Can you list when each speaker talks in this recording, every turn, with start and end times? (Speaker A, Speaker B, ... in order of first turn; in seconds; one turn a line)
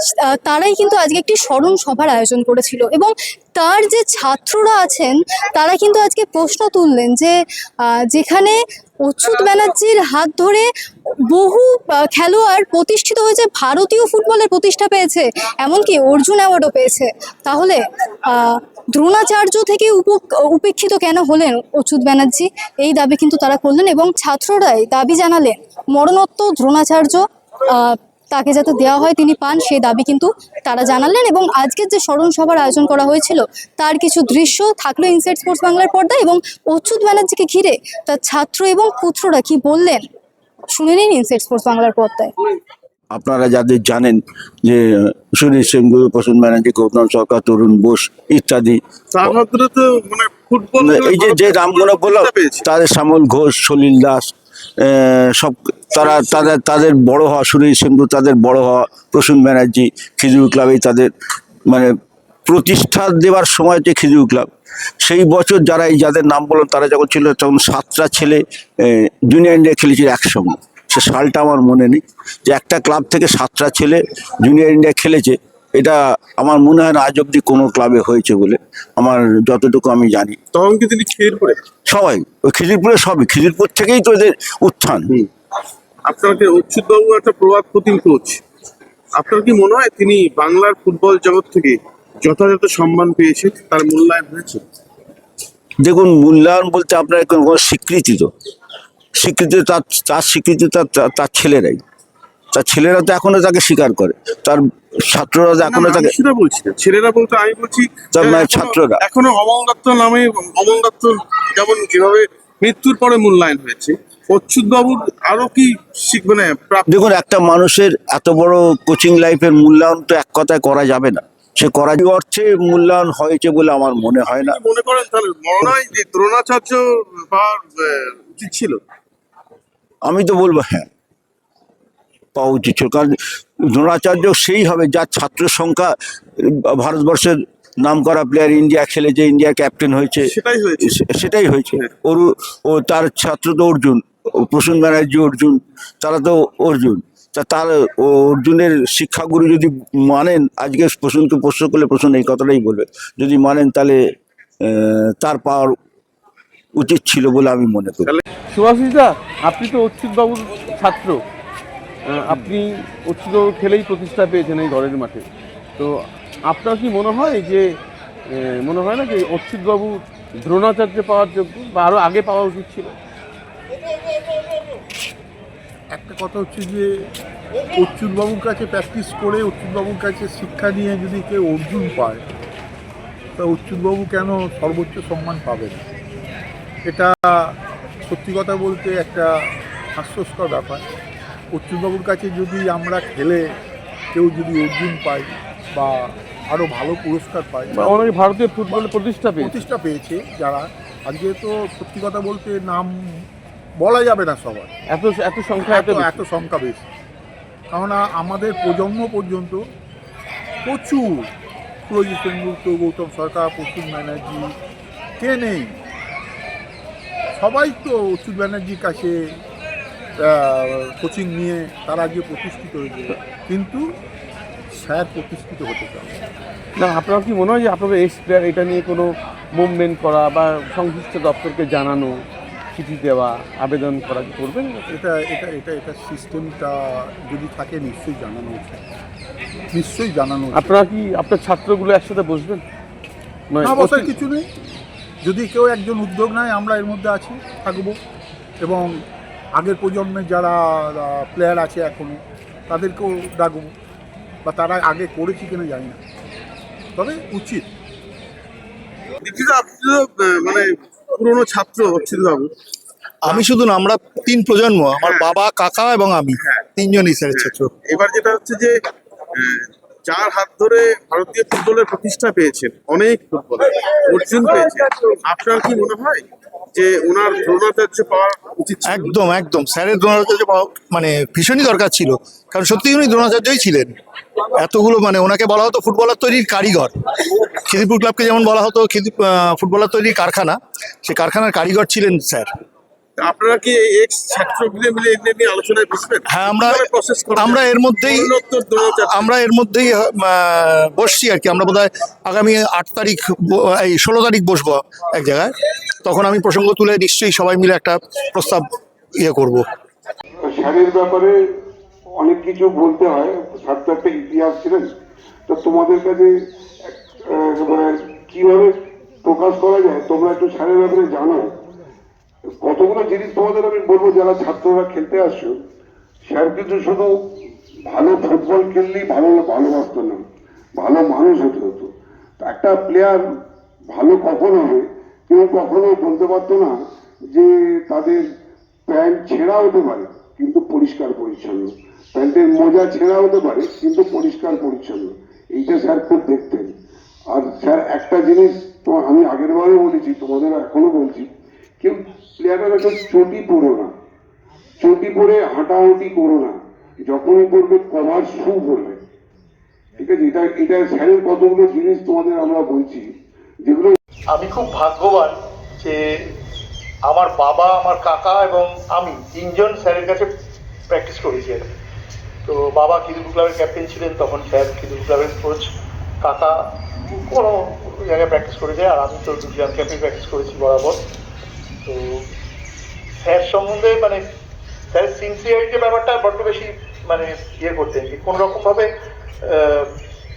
Speaker A: 0.2-10.7
Speaker A: 11.3-40.0
Speaker A: 40.7-42.3
Speaker B: 43.1-49.3
Speaker C: 49.4-50.8
Speaker D: 50.3-52.6
Speaker B: 50.8-61.1
Speaker B: 61.7-61.9
Speaker B: 62.5-64.5
Speaker B: 65.0-80.4
Speaker D: 80.6-81.5
Speaker C: 80.9-81.5
Speaker B: 81.9-85.1
Speaker C: 86.1-88.3
Speaker D: 86.6-87.0
Speaker D: 89.2-91.7
Speaker C: 89.2-94.5
Speaker D: 92.3-94.6
Speaker B: 95.8-98.3
Speaker B: 99.2-101.8
Speaker B: 102.5-106.1
Speaker D: 105.7-106.8
Speaker C: 106.3-107.8
Speaker D: 107.4-112.8
Speaker B: 108.1-109.0
Speaker C: 109.2-116.7
Speaker D: 113.9-114.5
Speaker D: 115.1-116.8
Speaker B: 116.9-124.6
Speaker D: 124.7-128.8
Speaker C: 125.7-126.8
Speaker B: 130.0-130.9
Speaker B: 132.3-133.2
Speaker B: 133.7-154.0
Speaker D: 140.4-140.9
Speaker B: 154.6-155.8
Speaker B: 156.8-158.2
Speaker D: 158.1-161.2
Speaker D: 162.1-165.2
Speaker D: 166.5-167.8
Speaker D: 168.3-172.9
Speaker E: 175.9-176.9
Speaker E: 177.7-182.2
Speaker E: 183.4-185.8
Speaker E: 186.9-187.6
Speaker E: 188.1-189.3
Speaker E: 189.9-190.8
Speaker E: 191.5-193.4
Speaker E: 194.1-198.2
Speaker D: 197.8-199.6
Speaker E: 199.4-203.2
Speaker E: 203.8-204.7
Speaker D: 204.9-206.2
Speaker E: 205.6-206.8
Speaker E: 207.7-209.6
Speaker E: 210.6-211.3
Speaker E: 211.9-214.5
Speaker E: 215.2-215.8
Speaker E: 217.4-219.2
Speaker E: 220.2-223.8
Speaker E: 224.8-226.2
Speaker D: 226.8-232.2
Speaker D: 232.7-234.9
Speaker E: 234.9-238.8
Speaker E: 239.7-240.8
Speaker D: 240.5-242.6
Speaker D: 243.5-244.1
Speaker E: 243.6-244.5
Speaker E: 245.2-247.9
Speaker E: 248.6-249.0
Speaker E: 249.5-253.7
Speaker E: 254.4-256.0
Speaker E: 256.9-257.7
Speaker D: 259.2-260.5
Speaker C: 259.6-260.6
Speaker D: 261.1-262.5
Speaker F: 263.2-267.7
Speaker D: 267.4-268.6
Speaker C: 268.0-268.7
Speaker D: 269.6-271.5
Speaker C: 270.3-273.6
Speaker D: 272.0-275.4
Speaker C: 274.3-274.7
Speaker C: 275.4-276.2
Speaker D: 276.8-278.9
Speaker C: 276.8-278.2
Speaker F: 278.8-284.0
Speaker F: 284.5-286.9
Speaker F: 287.6-292.5
Speaker D: 293.2-299.1
Speaker C: 293.3-296.0
Speaker F: 296.2-309.6
Speaker G: 310.4-311.4
Speaker G: 312.2-314.9
Speaker G: 315.5-316.3
Speaker G: 317.2-321.5
Speaker G: 322.6-325.6
Speaker G: 326.2-327.1
Speaker G: 327.9-330.2
Speaker G: 330.8-333.3
Speaker G: 333.9-336.8
Speaker G: 337.3-338.2
Speaker G: 338.9-346.7
Speaker G: 347.3-351.3
Speaker G: 351.8-353.9
Speaker G: 354.8-356.6
Speaker G: 357.1-359.0
Speaker G: 360.0-363.1
Speaker G: 363.6-364.0
Speaker F: 364.3-366.0
Speaker F: 367.1-370.3
Speaker F: 370.9-371.8
Speaker F: 372.4-375.7
Speaker F: 376.2-376.6
Speaker F: 377.1-381.0
Speaker F: 381.8-382.2
Speaker F: 383.2-384.2
Speaker F: 384.9-388.9
Speaker F: 389.5-389.9